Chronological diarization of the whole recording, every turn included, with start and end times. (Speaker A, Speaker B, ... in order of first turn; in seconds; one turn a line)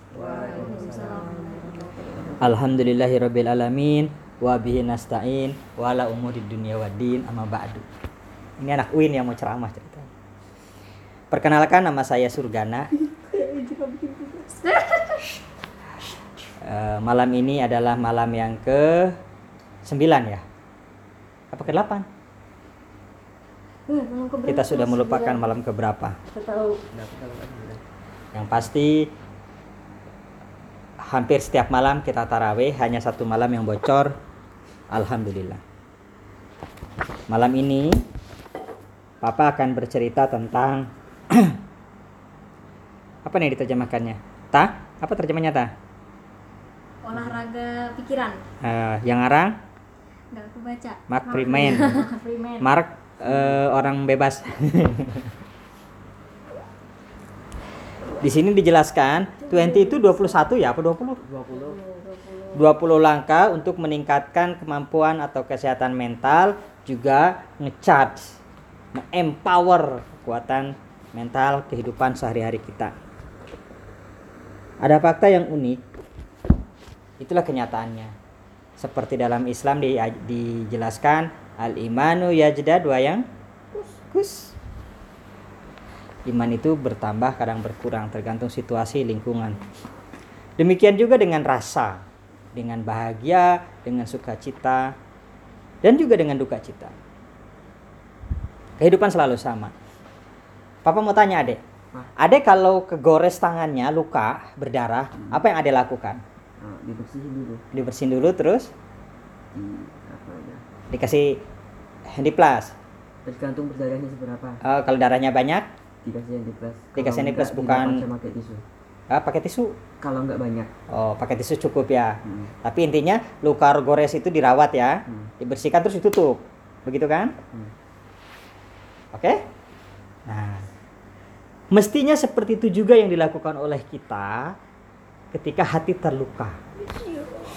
Speaker A: 0.1-2.4
Speaker B: 0.2-2.1
Speaker C: 2.4-7.9
Speaker C: 8.6-10.1
Speaker C: 11.3-12.9
Speaker B: 13.3-15.4
Speaker C: 16.6-19.1
Speaker C: 19.8-20.4
Speaker C: 21.5-22.1
Speaker B: 23.9-25.5
Speaker C: 24.4-26.2
Speaker B: 26.3-26.6
Speaker A: 26.9-27.8
Speaker C: 28.3-29.1
Speaker C: 31.1-34.1
Speaker C: 34.9-35.6
Speaker C: 37.3-38.0
Speaker C: 39.2-41.6
Speaker C: 43.2-45.7
Speaker B: 47.0-48.4
Speaker C: 48.6-49.5
Speaker B: 50.3-52.7
Speaker C: 51.1-52.1
Speaker C: 52.6-55.3
Speaker A: 53.3-53.6
Speaker C: 58.2-61.2
Speaker B: 59.5-60.3
Speaker A: 61.2-61.8
Speaker B: 61.5-62.6
Speaker C: 62.5-68.4
Speaker C: 68.9-72.9
Speaker C: 74.8-75.8
Speaker C: 77.2-78.1
Speaker C: 78.8-83.2
Speaker C: 83.9-84.5
Speaker C: 86.3-89.6
Speaker C: 90.6-92.0
Speaker C: 92.5-94.9
Speaker C: 95.8-96.9
Speaker C: 98.8-99.7
Speaker C: 100.8-101.6
Speaker C: 102.2-106.2
Speaker A: 106.6-107.6
Speaker C: 107.7-108.7
Speaker A: 109.5-110.6
Speaker C: 110.9-111.4
Speaker C: 112.1-112.7
Speaker A: 113.2-114.6
Speaker C: 114.6-115.7
Speaker A: 116.0-118.6
Speaker C: 117.0-118.0
Speaker C: 119.1-119.8
Speaker A: 120.0-120.7
Speaker C: 120.9-127.3
Speaker A: 122.2-122.5
Speaker C: 129.1-129.4
Speaker C: 130.3-130.7
Speaker C: 131.7-134.5
Speaker C: 135.3-136.6